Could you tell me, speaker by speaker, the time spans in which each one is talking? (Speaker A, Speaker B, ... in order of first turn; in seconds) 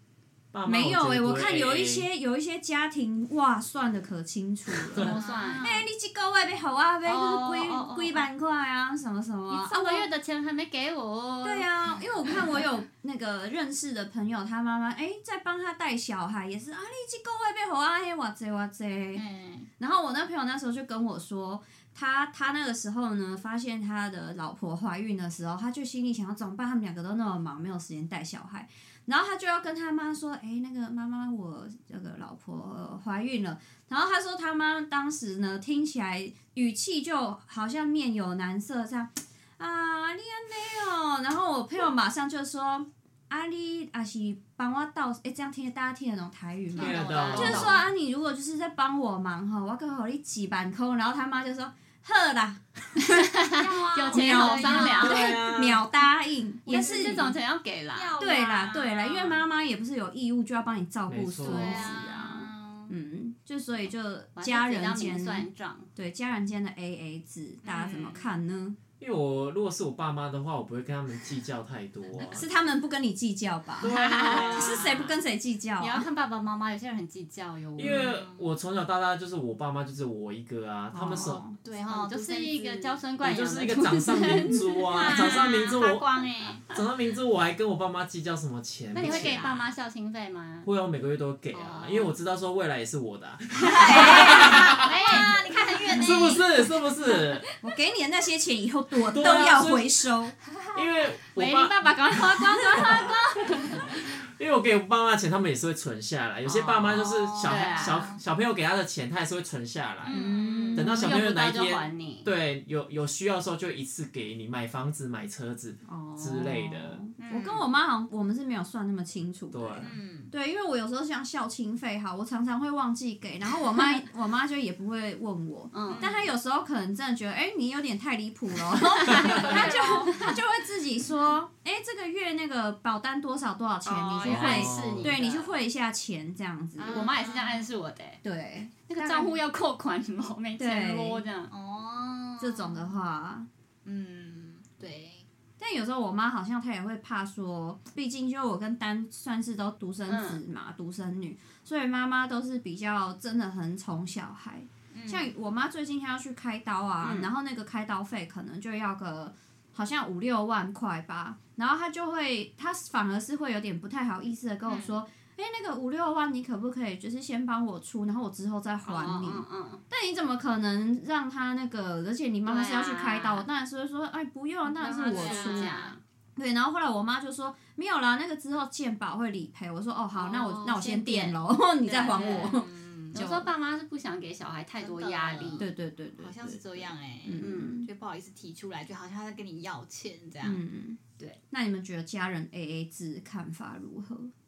Speaker A: 0.5-2.1, 46.8-47.8, 55.0-55.8, 61.1-61.8, 69.0-72.5, 73.8-75.0, 77.8-81.4, 83.2-86.1, 86.7-89.5, 90.6-95.3, 95.9-97.4, 99.0-99.9, 100.7-110.2, 110.8-117.0, 119.5-120.0, 134.2-135.2
Speaker B: 0.7-10.1, 11.4-19.2, 19.8-53.3, 54.1-57.3, 58.2-68.8, 72.2-74.0, 74.5-76.1, 80.9-81.6, 93.5-94.7, 97.6-100.3, 110.1-111.2, 115.8-137.2, 138.2-139.4, 140.6-141.3, 142.4-143.5, 145.6-175.8, 176.4-183.5, 185.6-187.9, 190.4-194.3
Speaker C: 5.0-5.7, 7.0-8.3, 9.5-12.0, 46.8-47.8, 53.3-55.4, 56.7-58.2, 61.5-62.2, 64.4-65.9, 73.9-74.7, 75.8-78.2, 81.8-85.4, 88.9-90.7, 94.9-95.2, 101.3-103.9, 107.4-108.1, 111.0-112.3, 125.7-126.1, 129.3-129.6, 134.2-135.5, 136.9-138.2, 138.9-141.5, 150.1-150.4, 157.0-157.3, 168.9-169.8, 172.5-173.4, 175.1-176.0, 180.4-181.3, 181.9-182.6, 183.1-185.7, 187.4-187.8
Speaker D: 5.0-5.9, 19.1-19.7, 46.8-47.8, 53.6-55.3, 57.9-59.4, 61.5-62.9, 67.6-68.4, 74.0-75.1, 77.8-78.5, 81.6-83.0, 84.9-86.7, 89.0-89.7, 91.5-92.1, 93.7-97.2, 103.3-103.9, 106.5-108.2, 110.0-111.0, 117.2-117.7, 119.8-120.3, 125.8-126.3, 129.1-130.4, 133.9-134.9, 136.8-137.7, 141.5-142.9, 143.8-145.3, 154.9-155.3, 164.7-165.0, 174.7-175.9, 180.2-180.4, 182.1-183.2, 184.8-190.6